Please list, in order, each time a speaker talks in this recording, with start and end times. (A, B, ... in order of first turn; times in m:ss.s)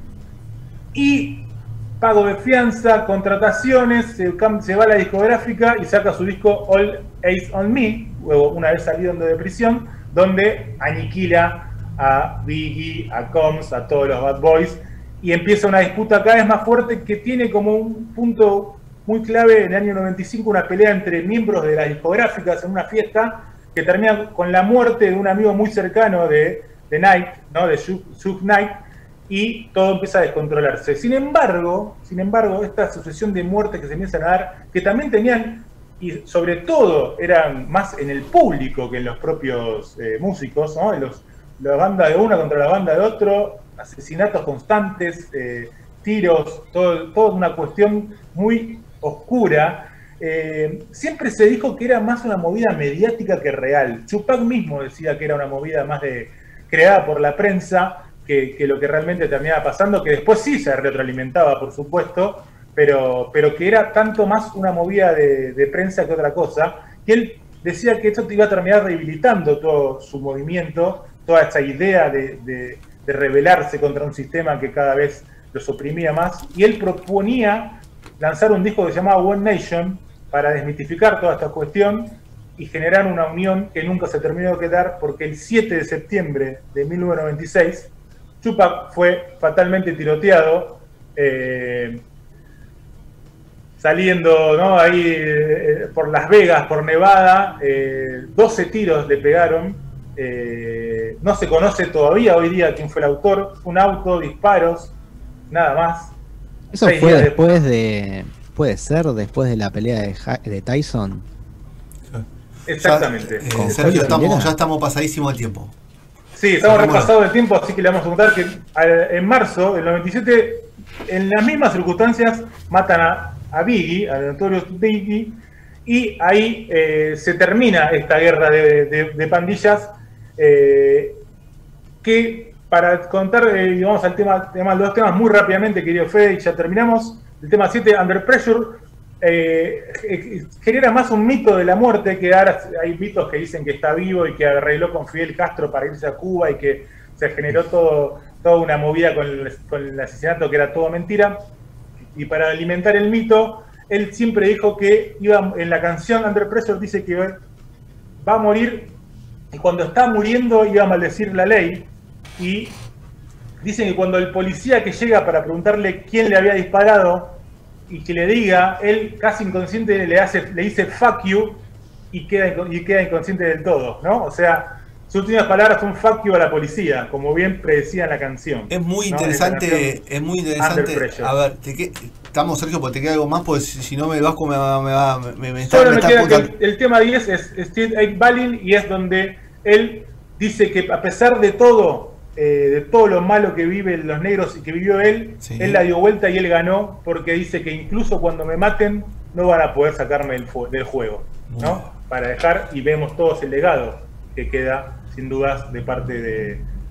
0:00.9-1:32.0 A
1:33.8-1:44.9 A
1:45.5-1:46.1 A
1:46.7-1:51.3 B
1:46.8-1:47.4 A
1:52.7-1:54.1 A
1:52.8-1:55.7 C
1:53.5-1:54.5 B
1:56.3-2:11.2 A
1:56.6-1:57.1 C
2:12.0-2:31.4 A
2:32.1-2:37.4 A
2:38.2-2:39.0 A
2:39.5-2:42.8 A
2:43.6-2:59.9 A
2:58.7-3:06.5 C
3:00.6-3:01.3 A
3:05.7-3:26.6 A
3:15.4-3:15.8 C
3:21.5-3:21.9 C